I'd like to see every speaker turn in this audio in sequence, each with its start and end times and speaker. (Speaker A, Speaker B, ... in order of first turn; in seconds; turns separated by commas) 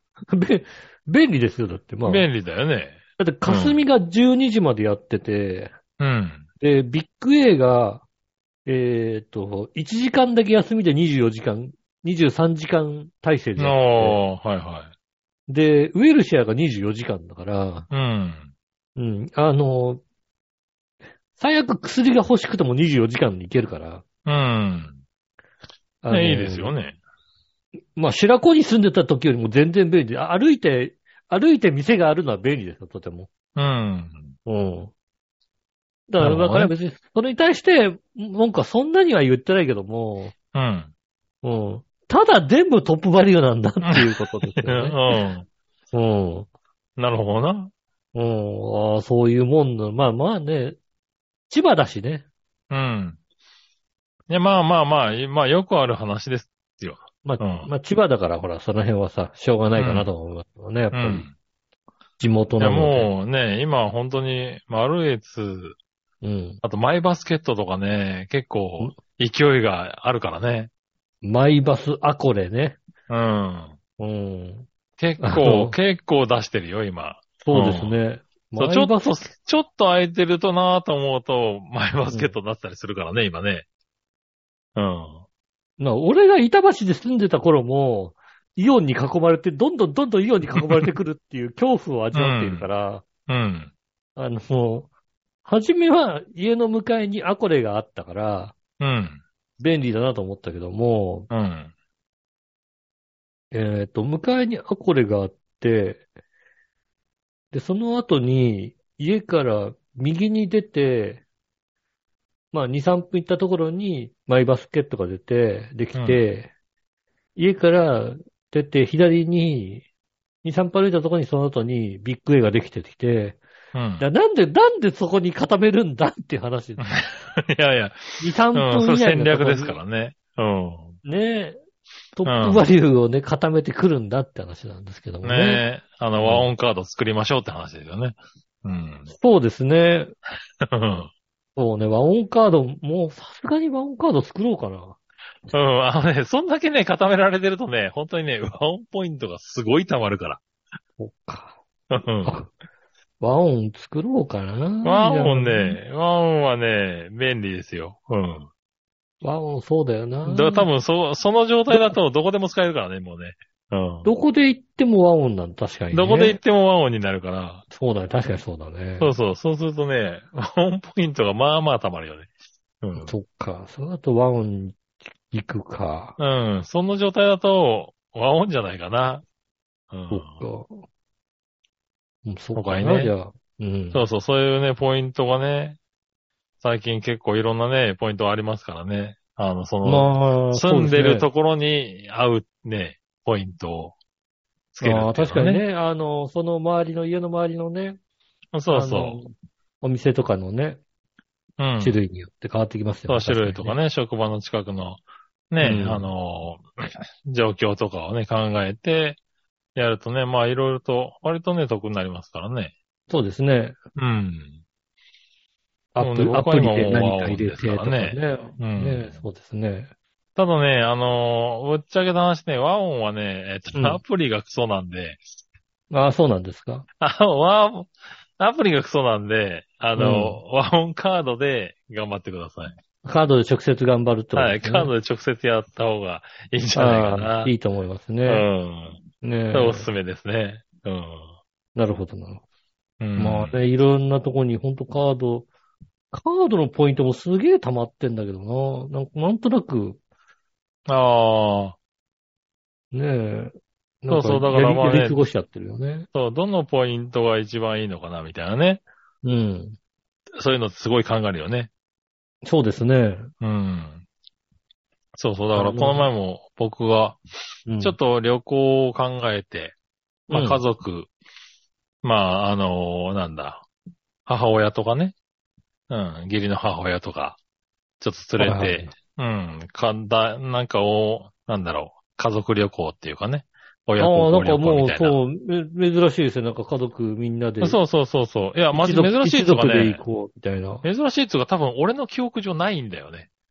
Speaker A: 0.3-2.3, Speaker B: 2.0-3.8, Speaker A: 3.2-5.7, Speaker B: 6.0-6.4, Speaker A: 6.6-8.0, Speaker A: 8.7-14.2, Speaker B: 13.6-14.9, Speaker A: 15.5-17.9, Speaker B: 17.9-18.5, Speaker A: 18.9-20.0, Speaker A: 21.4-24.0, Speaker B: 24.2-25.0, Speaker A: 26.0-26.7, Speaker B: 26.1-27.0, Speaker A: 27.9-33.3, Speaker B: 33.5-34.3, Speaker A: 34.5-34.9, Speaker A: 36.1-40.3, Speaker B: 36.2-36.7, Speaker B: 40.5-40.9, Speaker A: 41.4-45.0, Speaker B: 43.8-45.5, Speaker A: 45.9-46.5, Speaker B: 47.0-47.7, Speaker A: 48.1-50.8, Speaker A: 51.5-52.2, Speaker B: 52.7-53.2, Speaker B: 54.3-57.7, Speaker A: 57.2-61.3, Speaker B: 59.8-60.1, Speaker B: 60.9-61.3, Speaker A: 62.2-63.1, Speaker B: 62.6-65.8, Speaker A: 66.2-66.6, Speaker B: 66.6-70.7, Speaker A: 71.2-72.8, Speaker B: 73.1-73.8, Speaker A: 74.0-74.7, Speaker B: 75.0-78.0, Speaker A: 75.2-75.8, Speaker A: 77.4-79.3, Speaker B: 78.6-83.6, Speaker A: 82.1-82.3, Speaker B: 84.8-85.2, Speaker A: 85.8-93.0, Speaker B: 90.5-90.9, Speaker B: 92.1-92.7, Speaker B: 93.3-93.7, Speaker A: 94.2-94.9, Speaker A: 95.4-98.5, Speaker B: 98.8-99.2, Speaker A: 99.6-101.3, Speaker B: 101.3-101.7, Speaker A: 103.5-106.0, Speaker A: 107.5-111.2, Speaker A: 112.5-116.5, Speaker B: 115.9-116.2, Speaker A: 117.3-119.8, Speaker A: 120.4-123.4, Speaker B: 123.7-124.0, Speaker A: 124.0-126.9, Speaker B: 126.8-130.9, Speaker A: 128.2-129.8, Speaker A: 131.0-131.6, Speaker A: 132.2-136.5, Speaker B: 132.2-132.6, Speaker B: 135.2-139.1, Speaker A: 139.1-140.1, Speaker B: 140.6-141.1, Speaker A: 141.6-145.0, Speaker B: 145.5-150.4, Speaker A: 151.0-151.6, Speaker B: 151.9-152.3, Speaker A: 152.2-152.5, Speaker A: 153.2-155.8, Speaker B: 154.8-158.5, Speaker A: 159.2-160.7, Speaker B: 160.2-164.1, Speaker A: 164.0-166.4, Speaker B: 165.9-167.6, Speaker A: 167.7-169.1, Speaker B: 169.0-172.3, Speaker B: 172.8-173.1, Speaker A: 173.0-176.2, Speaker B: 176.2-179.2, Speaker B: 179.9-180.4, Speaker A: 180.1-180.8, Speaker A: 182.2-184.0, Speaker B: 182.5-183.1, Speaker B: 183.9-185.8, Speaker B: 186.6-193.9, Speaker A: 189.8-191.3, Speaker B: 194.7-195.6, Speaker A: 194.8-198.0, Speaker B: 198.5-199.2, Speaker A: 198.7-200.8, Speaker B: 201.6-202.0, Speaker A: 201.8-203.8, Speaker B: 203.1-209.2, Speaker A: 205.6-206.1, Speaker B: 209.7-212.7, Speaker A: 213.1-213.8, Speaker B: 213.9-214.6, Speaker A: 215.9-219.9, Speaker B: 216.0-219.2, Speaker B: 220.3-225.2, Speaker A: 223.7-224.0, Speaker A: 225.9-226.8, Speaker B: 227.0-232.7, Speaker A: 229.9-230.4, Speaker A: 233.0-234.9, Speaker B: 234.3-237.5, Speaker A: 236.7-238.5, Speaker B: 238.2-241.3, Speaker A: 239.2-239.9, Speaker A: 241.7-242.4, Speaker B: 243.0-243.6, Speaker A: 243.2-245.5, Speaker A: 246.1-250.0, Speaker B: 250.9-251.8, Speaker A: 252.9-256.1, Speaker B: 254.1-255.2, Speaker B: 256.1-258.8, Speaker A: 259.2-259.8, Speaker B: 260.3-261.7, Speaker A: 262.4-263.3, Speaker B: 263.4-264.0, Speaker B: 265.1-267.2, Speaker A: 265.5-266.1, Speaker A: 267.6-268.0, Speaker B: 267.8-269.7, Speaker A: 270.3-270.6, Speaker B: 270.3-271.1, Speaker B: 272.0-273.6, Speaker B: 274.2-275.1, Speaker B: 275.9-277.4, Speaker B: 278.0-285.2, Speaker A: 278.4-278.9, Speaker A: 284.0-287.8, Speaker B: 287.6-290.0, Speaker A: 288.7-290.8, Speaker B: 290.8-293.3